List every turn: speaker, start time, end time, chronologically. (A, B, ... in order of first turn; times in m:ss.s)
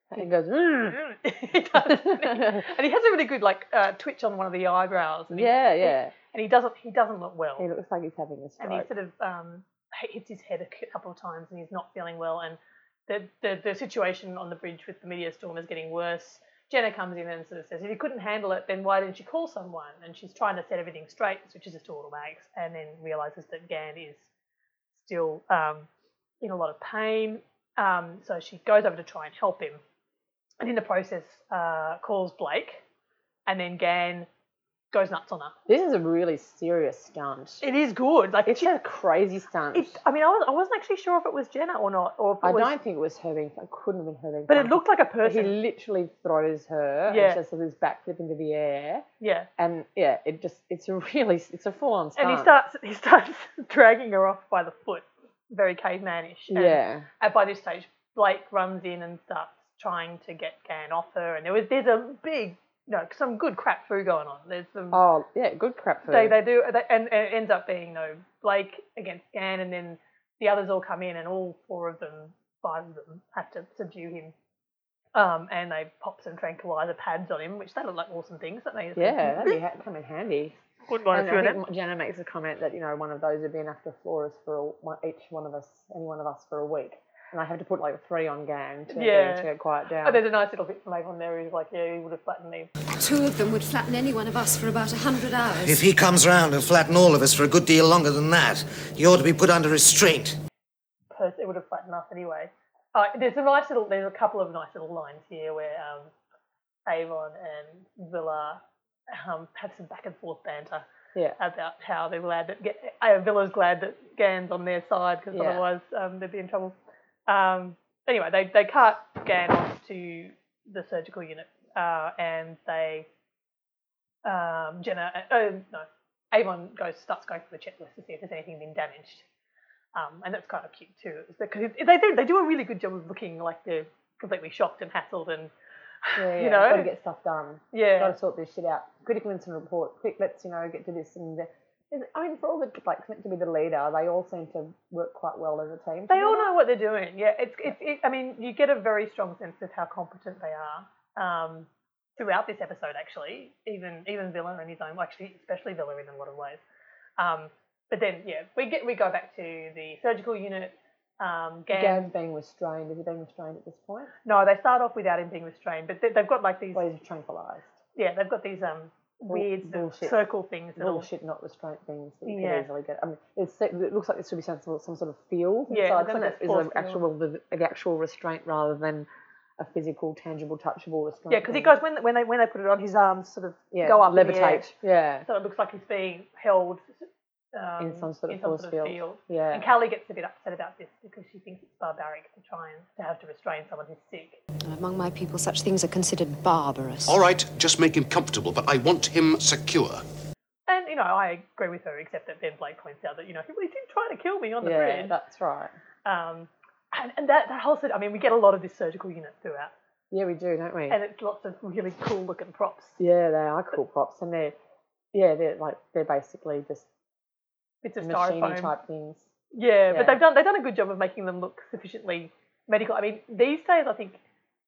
0:00.1-0:01.0 A
0:00.9-0:07.7 B
0:01.7-0:02.7 A
0:05.3-0:06.1 A
0:07.6-0:08.9 A
0:08.6-0:24.3 B
0:24.9-0:25.9 B
0:26.4-0:29.8 B
0:30.6-0:32.8 B
0:33.5-0:34.3 B
0:34.9-0:35.6 B
0:35.7-0:37.6 A
0:37.6-0:38.8 B
0:38.4-0:40.0 A
0:39.7-0:42.8 B
0:42.4-0:49.0 A
0:44.5-0:45.6 B
0:47.1-0:47.4 B
0:49.2-0:49.5 B
0:49.6-0:52.5 A
0:52.2-1:05.0 B
0:56.5-0:57.1 A
1:04.9-1:06.4 A
1:06.1-1:14.3 B
1:15.2-1:19.6 B
1:19.0-1:20.6 A
1:20.9-1:21.6 B
1:21.1-1:30.2 A
1:28.9-1:29.5 B
1:30.0-1:32.7 B
1:33.0-1:35.8 C
1:35.6-1:40.4 D
1:41.1-1:46.1 B
1:46.9-1:50.9 B
1:51.4-1:56.8 B
1:55.3-1:55.6 A
1:57.3-2:03.1 B
2:04.2-2:09.2 B
2:09.9-2:15.5 B
2:16.0-2:16.9 B
2:16.2-2:26.5 A
2:17.7-2:18.2 B
2:26.1-2:36.6 B
2:37.2-2:42.1 B
2:41.7-2:44.1 A
2:44.2-2:46.9 B
2:46.7-2:47.8 A
2:48.0-2:51.1 B
2:49.3-2:50.2 A
2:50.8-3:01.7 A
2:52.3-2:52.7 B
2:55.7-2:57.0 B
3:01.3-3:14.4 B
3:03.7-3:05.3 A
3:07.8-3:09.7 A
3:14.6-3:17.2 C
3:17.1-3:20.0 E
3:20.7-3:25.2 B
3:24.6-3:25.7 A
3:26.0-3:29.7 B
3:30.1-3:31.0 A
3:30.9-3:33.0 B
3:33.0-3:34.6 A
3:35.1-3:36.9 A
3:37.8-3:38.8 B
3:38.0-3:39.3 A
3:39.5-3:44.2 B
3:39.9-3:40.2 A